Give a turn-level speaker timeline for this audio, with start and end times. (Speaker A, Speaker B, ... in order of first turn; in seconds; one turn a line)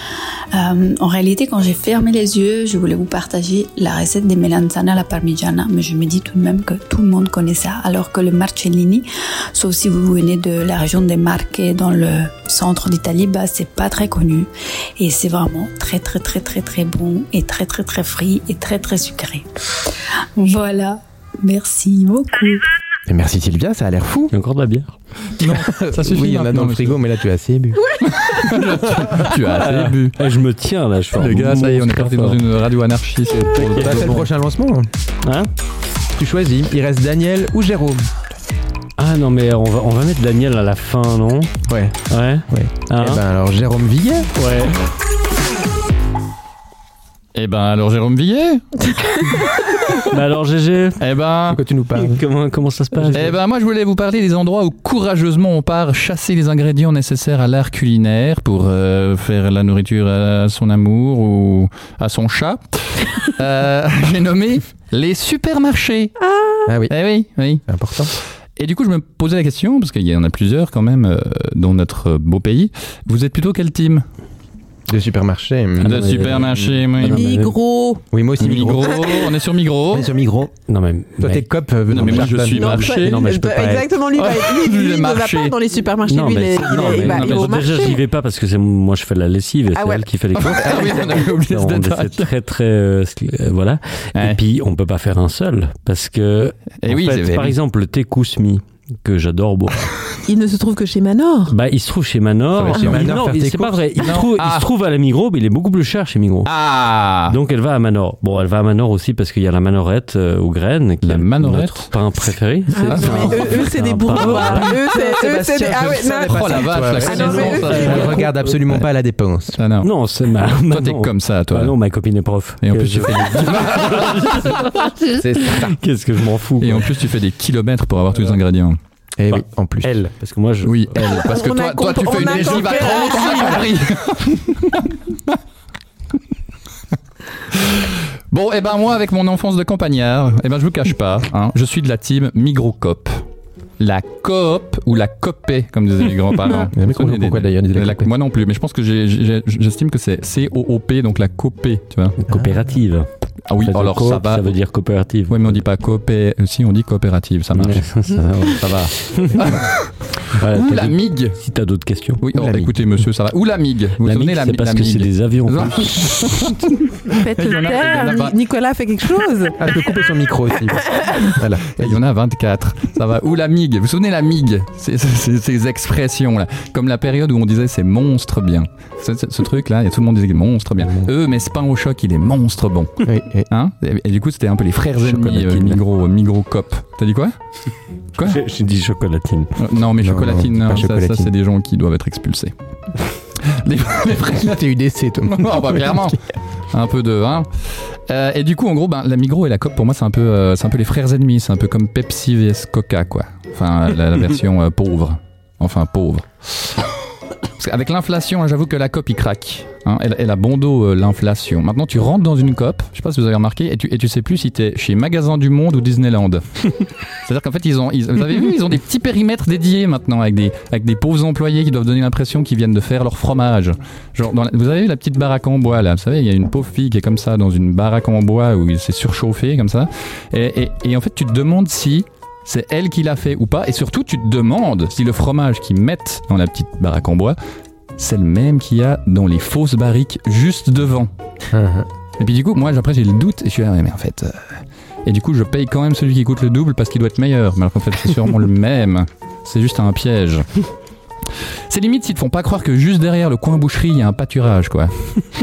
Speaker A: 0.5-19.5
Speaker A: 20.4-22.6
Speaker B: 23.1-24.3
Speaker C: 24.3-24.9
Speaker D: 25.4-27.0
Speaker B: 25.4-27.8
Speaker D: 28.0-30.2
Speaker C: 29.5-32.4
Speaker D: 31.2-34.2
Speaker C: 33.4-34.2
Speaker B: 33.7-34.9
Speaker B: 36.2-38.0
Speaker C: 39.0-41.5
Speaker B: 41.7-44.3
Speaker C: 42.1-43.2
Speaker C: 44.4-44.8
Speaker D: 47.3-48.6
Speaker C: 50.1-51.0
Speaker D: 51.0-51.6
Speaker B: 51.5-52.2
Speaker C: 52.0-53.4
Speaker D: 53.1-66.1
Speaker E: 66.2-66.7
Speaker B: 66.7-66.9
Speaker D: 66.9-67.6
Speaker B: 67.7-68.1
Speaker D: 68.6-74.0
Speaker B: 74.9-76.2
Speaker C: 75.8-77.5
Speaker D: 75.8-77.3
Speaker E: 77.0-78.0
Speaker B: 78.1-79.2
Speaker D: 78.4-80.1
Speaker B: 79.9-80.5
Speaker C: 80.7-81.4
Speaker B: 81.2-82.9
Speaker D: 81.9-83.2
Speaker C: 82.0-82.3
Speaker E: 82.5-88.0
Speaker C: 82.8-83.8
Speaker D: 84.2-85.5
Speaker C: 86.1-99.9
Speaker D: 86.7-87.7
Speaker E: 89.7-90.0
Speaker D: 90.3-92.3
Speaker D: 96.8-97.5
Speaker E: 100.3-101.5
Speaker C: 101.5-106.5
Speaker B: 102.6-103.9
Speaker D: 102.6-103.0
Speaker D: 104.0-104.7
Speaker D: 106.4-107.3
Speaker C: 107.3-114.8
Speaker D: 111.0-111.9
Speaker E: 112.7-118.0
Speaker D: 112.8-113.6
Speaker B: 114.2-119.6
Speaker D: 116.3-118.8
Speaker C: 117.5-118.4
Speaker D: 119.6-119.9
Speaker C: 119.8-126.9
Speaker D: 120.7-121.7
Speaker D: 122.6-124.4
Speaker B: 125.2-125.7
Speaker D: 126.6-128.8
Speaker B: 129.2-129.9
Speaker C: 129.3-131.3
Speaker D: 130.6-134.8
Speaker E: 131.3-133.6
Speaker C: 132.3-132.8
Speaker D: 137.5-143.2
Speaker D: 143.8-152.2
Speaker B: 146.7-148.1
Speaker C: 152.2-153.1
Speaker B: 152.3-152.6
Speaker D: 153.5-154.5
Speaker C: 153.6-155.6
Speaker D: 155.3-157.8
Speaker C: 157.5-159.5
Speaker D: 159.4-159.6
Speaker C: 160.4-162.2
Speaker D: 160.5-161.4
Speaker D: 162.2-166.6
Speaker B: 162.3-162.7
Speaker C: 164.0-166.4
Speaker E: 167.1-169.6
Speaker D: 167.3-168.3
Speaker B: 169.6-172.0
Speaker D: 171.8-187.3
Speaker B: 180.8-181.1
Speaker B: 183.0-183.5
Speaker C: 185.0-185.8
Speaker C: 188.2-189.5
Speaker D: 189.6-192.5
Speaker B: 190.0-191.3
Speaker D: 193.5-194.6
Speaker B: 194.3-196.2
Speaker D: 195.2-196.2
Speaker D: 196.7-197.5
Speaker D: 198.1-206.7
Speaker D: 207.6-216.4
Speaker D: 217.2-237.4
Speaker D: 238.0-241.1
Speaker B: 241.5-241.9
Speaker D: 242.2-250.4
Speaker D: 251.7-255.2